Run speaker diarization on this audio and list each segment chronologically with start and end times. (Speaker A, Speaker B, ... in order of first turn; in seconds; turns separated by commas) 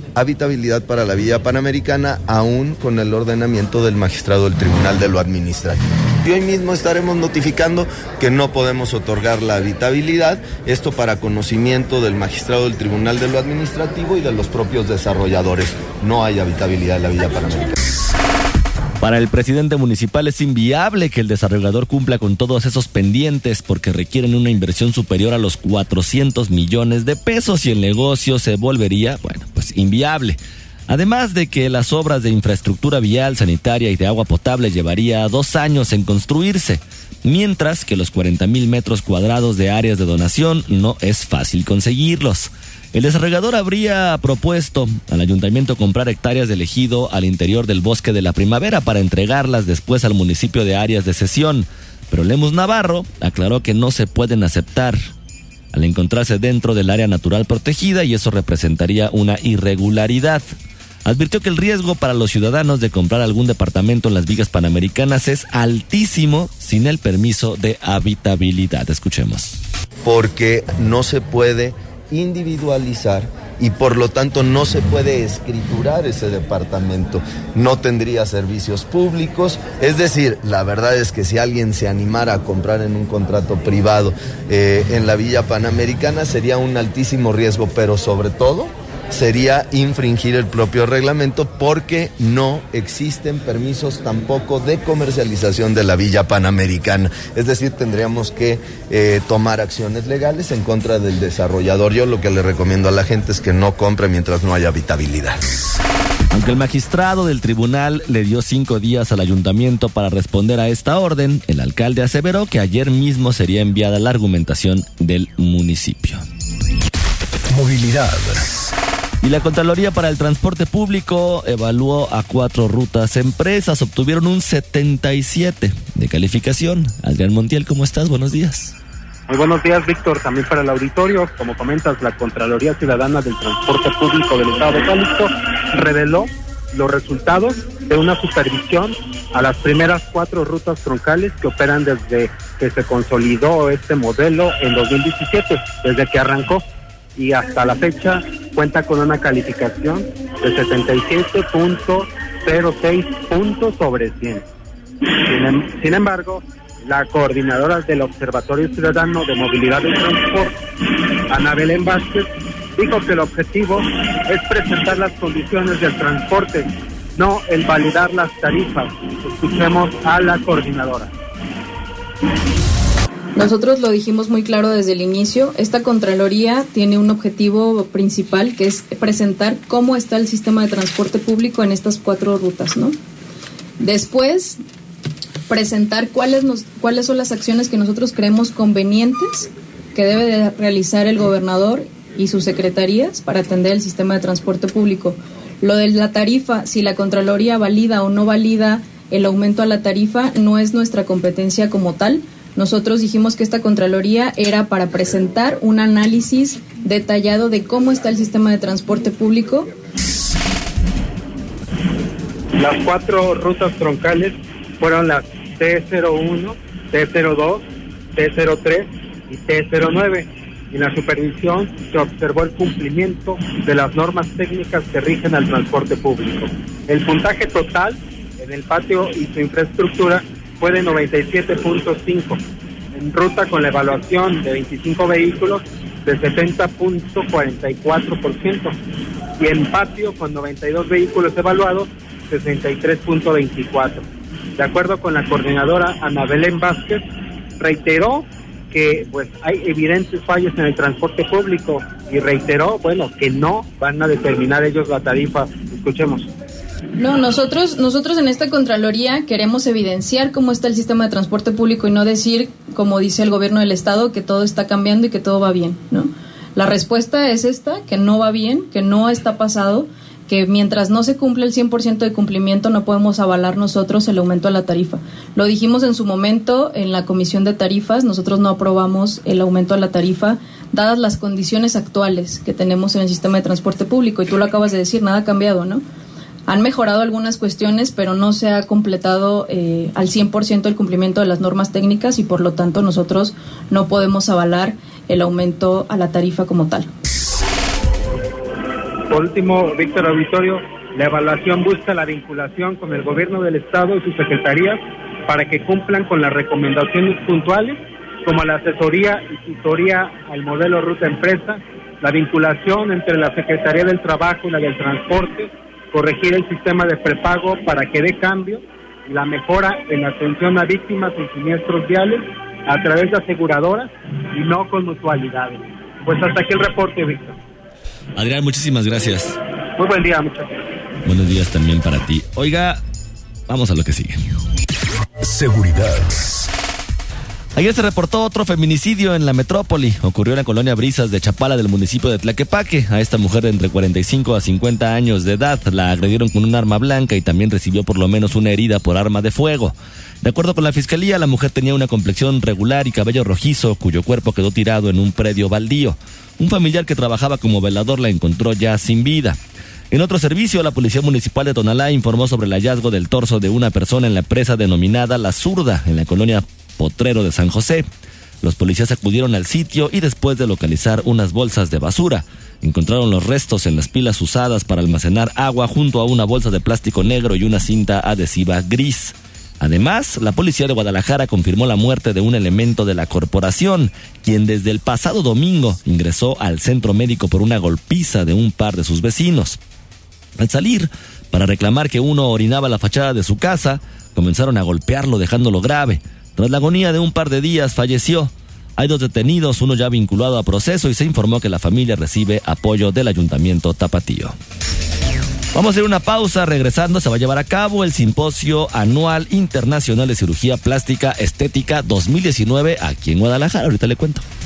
Speaker A: 0.1-17.7, Speaker B: 19.0-55.0, Speaker B: 55.7-60.4, Speaker B: 61.0-69.6, Speaker A: 70.0-105.4, Speaker B: 106.3-116.2, Speaker C: 117.5-118.7, Speaker B: 119.2-128.7, Speaker D: 129.3-146.6, Speaker D: 147.2-154.4, Speaker D: 155.2-160.6, Speaker D: 161.3-171.1, Speaker E: 173.3-183.0, Speaker E: 183.8-184.6, Speaker E: 185.5-209.7, Speaker D: 212.5-217.6, Speaker D: 218.1-232.4, Speaker D: 232.9-238.7, Speaker D: 239.4-244.1, Speaker D: 244.6-247.0, Speaker D: 247.6-256.3, Speaker E: 257.0-285.8, Speaker E: 286.5-296.9, Speaker D: 299.1-327.4, Speaker B: 328.1-329.4, Speaker D: 329.8-330.6, Speaker B: 331.0-332.8, Speaker B: 333.5-334.2, Speaker C: 335.2-336.5, Speaker B: 337.6-359.4, Speaker B: 359.9-367.8, Speaker B: 368.4-389.6, Speaker B: 390.4-404.4, Speaker B: 405.5-414.2